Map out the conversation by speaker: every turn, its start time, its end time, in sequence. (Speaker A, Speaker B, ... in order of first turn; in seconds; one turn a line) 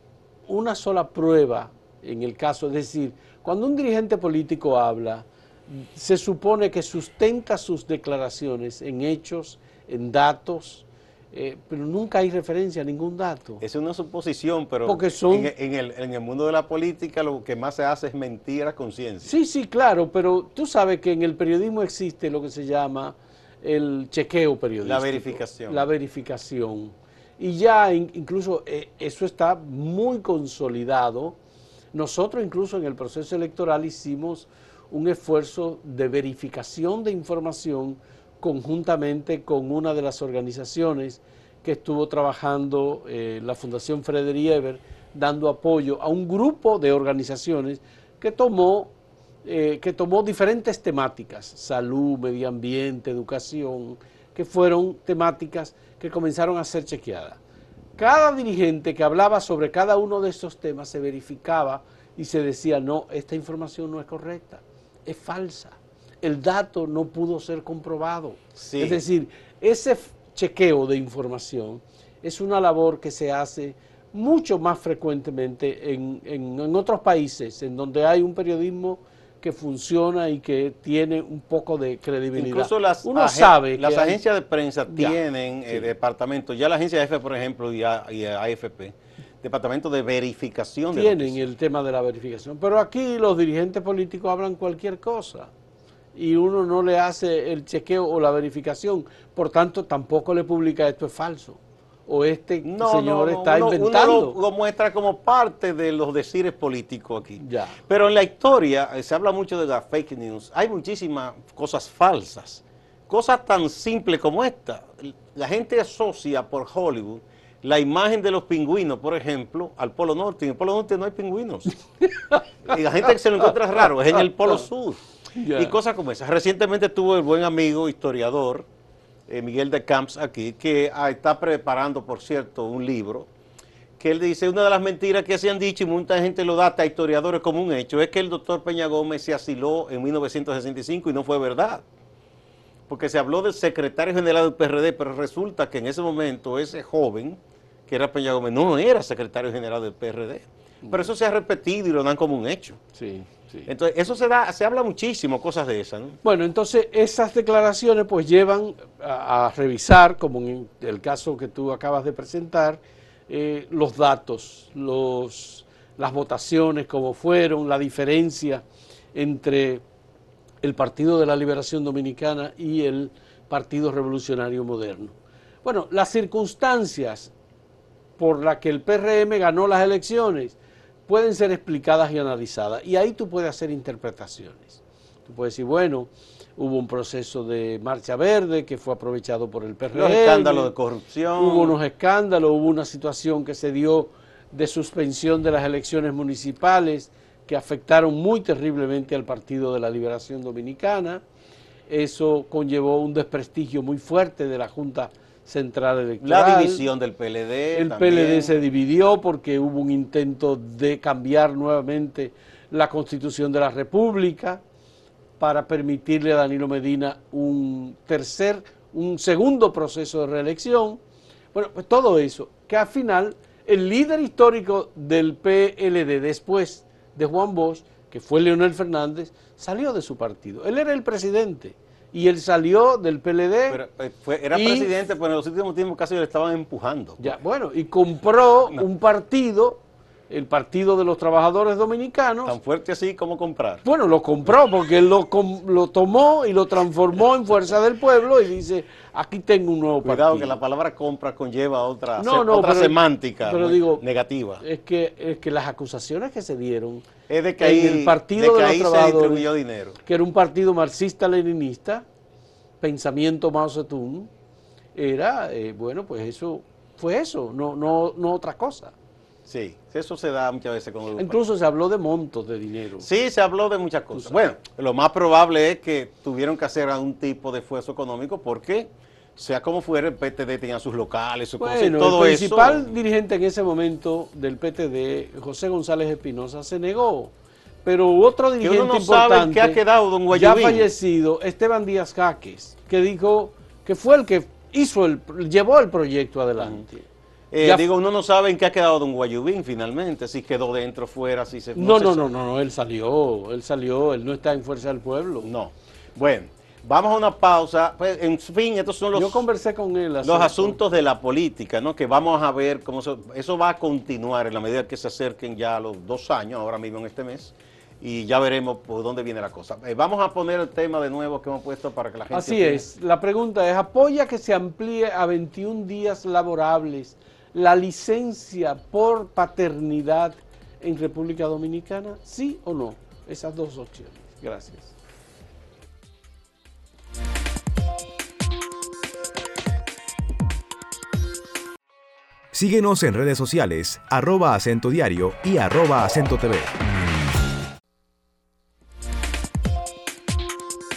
Speaker A: 0.5-13.6
Speaker B: 13.6-19.3
Speaker A: 14.8-15.5
Speaker A: 19.2-31.4
Speaker B: 24.8-25.9
Speaker A: 31.9-48.9
Speaker A: 49.4-57.4
Speaker A: 58.0-84.2
Speaker B: 68.6-69.0
Speaker B: 82.3-91.4
Speaker A: 84.9-85.9
Speaker A: 90.9-95.5
Speaker A: 96.1-104.3
Speaker B: 102.6-121.8
Speaker A: 107.4-107.8
Speaker A: 122.0-122.8
Speaker B: 122.7-125.0
Speaker A: 125.3-125.8
Speaker B: 125.5-128.7
Speaker B: 129.3-133.3
Speaker B: 134.0-141.8
Speaker B: 142.9-152.8
Speaker A: 150.8-151.1
Speaker A: 152.9-153.7
Speaker B: 153.7-156.2
Speaker A: 156.2-168.6
Speaker A: 169.1-169.8
Speaker A: 170.6-177.3
Speaker A: 178.2-180.6
Speaker A: 181.1-190.7
Speaker B: 189.9-191.7
Speaker A: 191.3-201.2
Speaker A: 201.9-206.8
Speaker B: 206.2-208.5
Speaker A: 207.7-214.6
Speaker A: 215.4-221.0
Speaker A: 221.5-233.8
Speaker B: 233.7-237.3
Speaker A: 234.5-234.9
Speaker A: 237.2-242.6
Speaker B: 242.4-243.8
Speaker A: 243.8-250.6
Speaker B: 250.0-254.6
Speaker A: 252.2-254.0
Speaker A: 254.6-257.1
Speaker B: 257.3-260.0
Speaker A: 257.6-259.5
Speaker A: 260.0-262.1
Speaker A: 262.8-264.3
Speaker A: 264.9-268.9
Speaker B: 269.5-271.4
Speaker A: 271.1-273.1
Speaker B: 273.0-282.9
Speaker A: 281.6-287.3
Speaker A: 287.8-289.8
Speaker B: 288.6-290.9
Speaker A: 290.3-297.1
Speaker B: 296.6-296.8
Speaker B: 297.5-302.2
Speaker A: 297.6-297.9
Speaker A: 301.7-305.5
Speaker B: 305.4-309.4
Speaker A: 309.1-310.8
Speaker B: 310.2-322.8
Speaker A: 322.3-334.9
Speaker C: 342.5-346.7